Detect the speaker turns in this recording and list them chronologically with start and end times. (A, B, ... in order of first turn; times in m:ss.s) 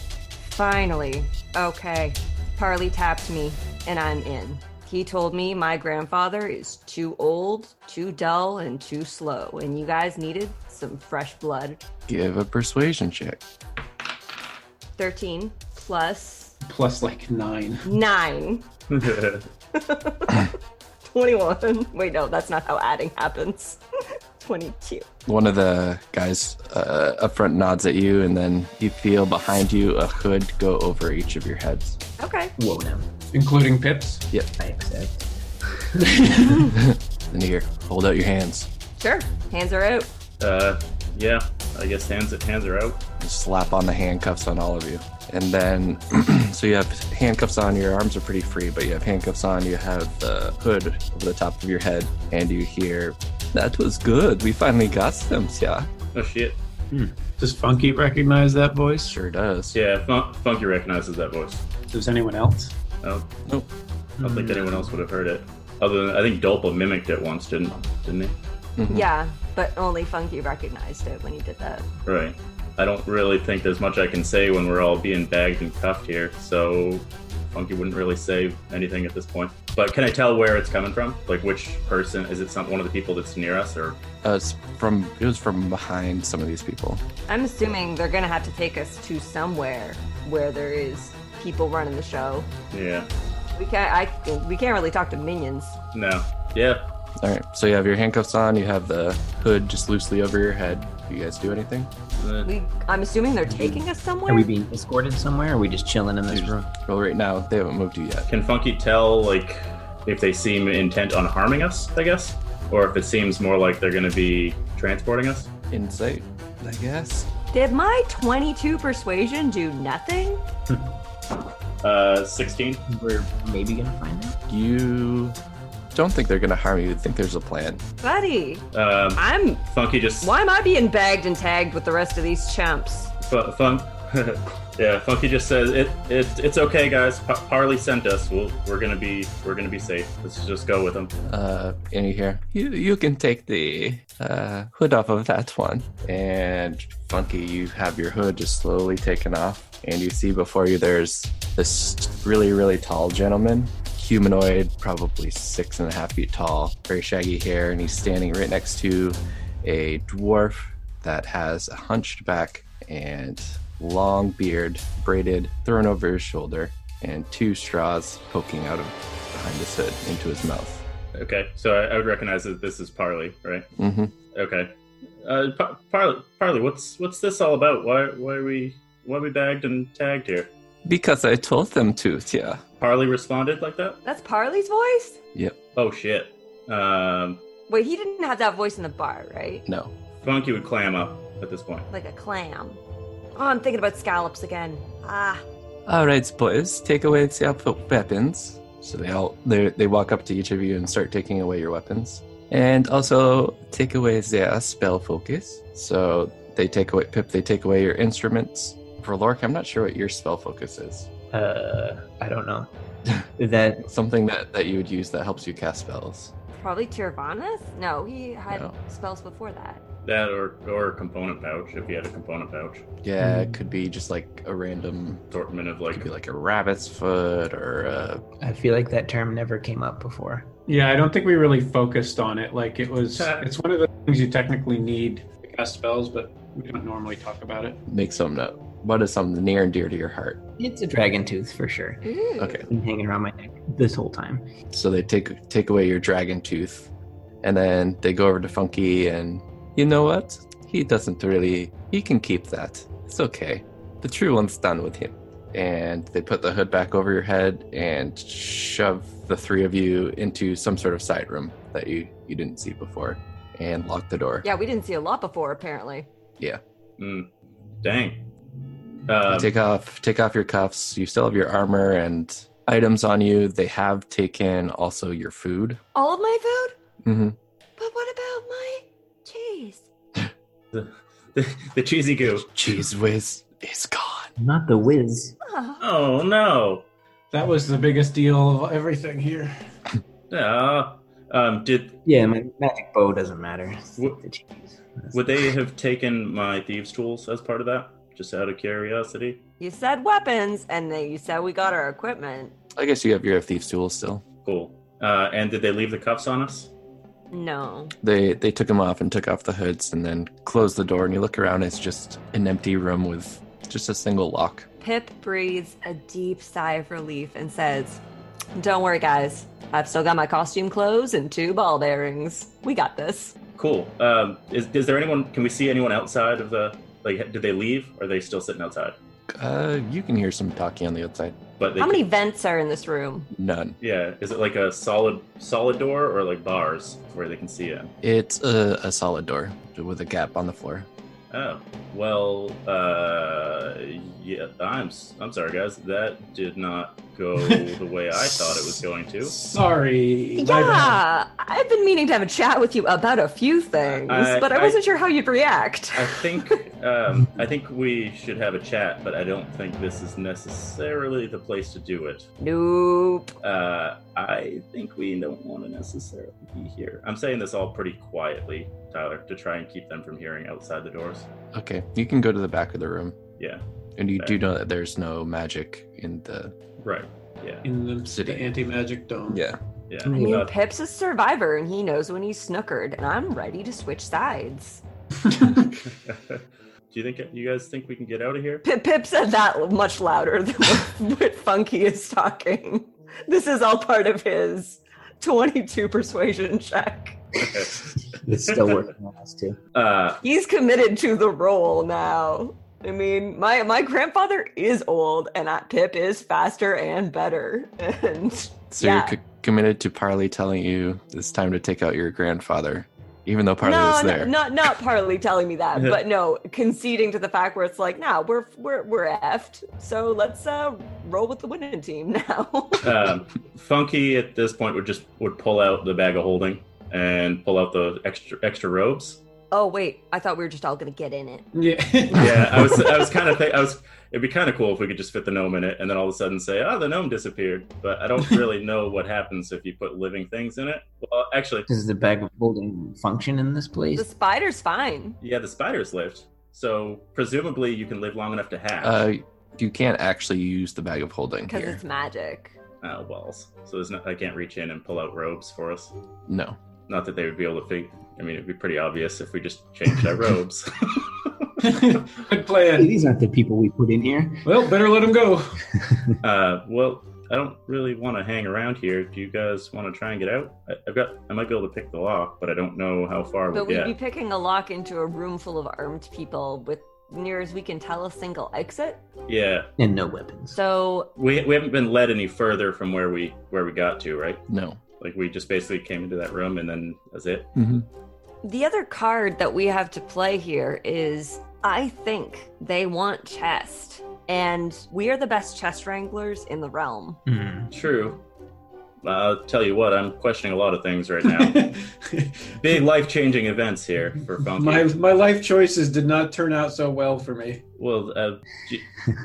0:00.4-0:11.8 A
0:12.1-0:13.4 B
0:15.0-0:16.6 A
0:16.6-0:17.9 C
0:17.9-0:18.7 A
0:18.9-0:19.5 D
0:19.7-0:20.6 A
0:21.1-0:23.8 A
0:24.4-0:25.1 A
0:25.3-0:32.0 B
0:32.2-0:32.5 A
0:32.6-0:33.1 E
0:33.3-0:34.2 C
0:34.6-0:35.2 E
0:36.2-0:36.6 C
0:36.4-0:38.7 B
0:39.0-0:40.1 A
0:40.4-0:43.0 D
0:43.2-0:55.9 B
0:56.1-0:56.6 D
0:56.9-0:59.1 C
0:59.1-0:59.8 B
0:59.7-1:01.6 D
1:01.9-1:02.7 C
1:03.0-1:03.3 D
1:04.2-1:04.9 E
1:04.2-1:08.4 D
1:08.8-1:09.1 B
1:08.9-1:11.9 A
1:12.0-1:24.0 D
1:24.2-1:27.0 B
1:27.3-1:32.5 A
1:32.7-1:33.1 D
1:33.5-1:35.8 A
1:35.9-1:36.8 D
1:37.2-1:41.9 B
1:42.2-1:42.5 D
1:42.4-1:44.5 A
1:43.5-1:46.7 E
1:46.3-1:48.3 B
1:48.3-1:55.5 D
1:55.7-1:57.3 B
1:57.5-2:00.4 A
2:01.8-2:02.8 D
2:02.9-2:04.4 E
2:04.5-2:05.4 B
2:05.9-2:07.8 B
2:08.0-2:09.6 A
2:08.7-2:10.3 D
2:10.2-2:13.1 A
2:13.2-2:21.1 D
2:21.2-2:50.8 B
2:51.2-2:53.7 D
2:53.8-2:54.1 B
2:54.3-3:00.5 D
3:00.8-3:02.6 B
3:02.8-3:04.0 D
3:04.0-3:05.2 A
3:05.8-3:07.4 D
3:07.7-3:09.6 A
3:09.7-3:09.9 B
3:10.2-3:11.9 D
3:11.9-3:12.8 A
3:13.4-3:15.4 A
3:15.9-3:31.1 B
3:31.3-3:32.7 E
3:33.4-3:33.9 E
3:33.8-3:36.3 B
3:36.6-3:39.8 A
3:38.5-3:38.8 B
3:40.0-3:42.8 D
3:43.0-3:45.2 B
3:43.2-3:43.6 E
3:45.3-3:46.1 D
3:45.9-3:48.2 B
3:48.4-3:50.5 E
3:50.7-3:57.8 C
3:53.1-3:53.5 D
3:57.9-4:00.4 B
4:00.6-4:02.0 E
4:02.0-4:02.6 A
4:02.4-4:02.7 B
4:02.7-4:04.5 E
4:04.7-4:06.9 B
4:07.4-4:24.5 B
4:24.4-4:26.1 A
4:27.0-4:27.3 D
4:27.8-4:28.2 D
4:29.1-4:29.5 D
4:29.3-4:35.8 B
4:36.0-4:36.8 A
4:37.0-4:37.4 B
4:37.8-4:39.9 A
4:40.7-4:42.5 D
4:42.4-4:44.3 B
4:44.4-4:45.4 E
4:45.4-4:45.8 A
4:45.8-4:46.9 D
4:47.3-4:49.5 C
4:50.3-4:52.0 D
4:52.0-4:55.3 E
4:55.1-4:59.4 D
4:59.6-5:02.5 A
5:02.8-5:04.2 B
5:04.4-5:06.7 D
5:07.3-5:07.9 A
5:08.0-5:14.7 B
5:14.8-5:18.0 A
5:18.6-5:23.4 A
5:23.6-5:29.0 D
5:29.3-5:31.4 B
5:31.6-5:32.0 D
5:31.8-5:33.3 A
5:33.3-5:33.8 B
5:33.8-5:37.9 D
5:38.0-5:40.9 B
5:41.3-5:49.4 D
5:49.2-5:51.0 C
5:50.4-5:56.6 A
5:53.8-5:54.8 D
5:56.0-6:02.3 D
6:02.4-6:03.3 A
6:03.4-6:11.3 D
6:11.5-6:13.2 B
6:14.0-6:16.5 B
6:16.8-6:17.7 D
6:17.6-6:19.4 C
6:18.1-6:18.5 B
6:19.3-6:19.6 B
6:19.9-6:20.5 D
6:20.1-6:20.3 E
6:20.1-6:24.8 A
6:25.3-6:25.6 C
6:25.8-6:28.6 D
6:28.6-6:37.2 A
6:37.4-6:37.9 D
6:37.8-6:39.6 E
6:38.4-6:38.8 D
6:39.7-6:40.2 D
6:40.2-6:49.2 A
6:48.7-6:54.3 B
6:53.6-7:02.9 A
7:02.8-7:09.2 D
7:09.5-7:11.5 A
7:11.5-7:12.8 C
7:12.1-7:21.7 D
7:21.7-7:24.1 E
7:24.0-7:25.2 A
7:25.2-7:29.1 D
7:28.8-7:31.8 B
7:31.5-7:32.6 A
7:32.8-7:35.9 D
7:36.3-7:36.6 B
7:36.9-7:41.5 D
7:41.6-7:42.9 C
7:42.7-7:44.5 E
7:44.4-7:45.6 C
7:46.2-7:53.9 D
7:53.5-7:59.0 A
7:59.3-7:59.7 D
7:59.8-8:00.6 E
8:00.5-8:01.1 A
8:01.2-8:04.4 D
8:04.5-8:04.8 B
8:05.0-8:07.5 D
8:07.6-8:07.9 B
8:08.4-8:17.2 A
8:17.3-8:17.7 E
8:17.7-8:18.2 D
8:19.0-8:21.7 D
8:21.3-8:22.5 C
8:22.6-8:24.9 D
8:24.6-8:27.6 C
8:27.8-8:28.9 D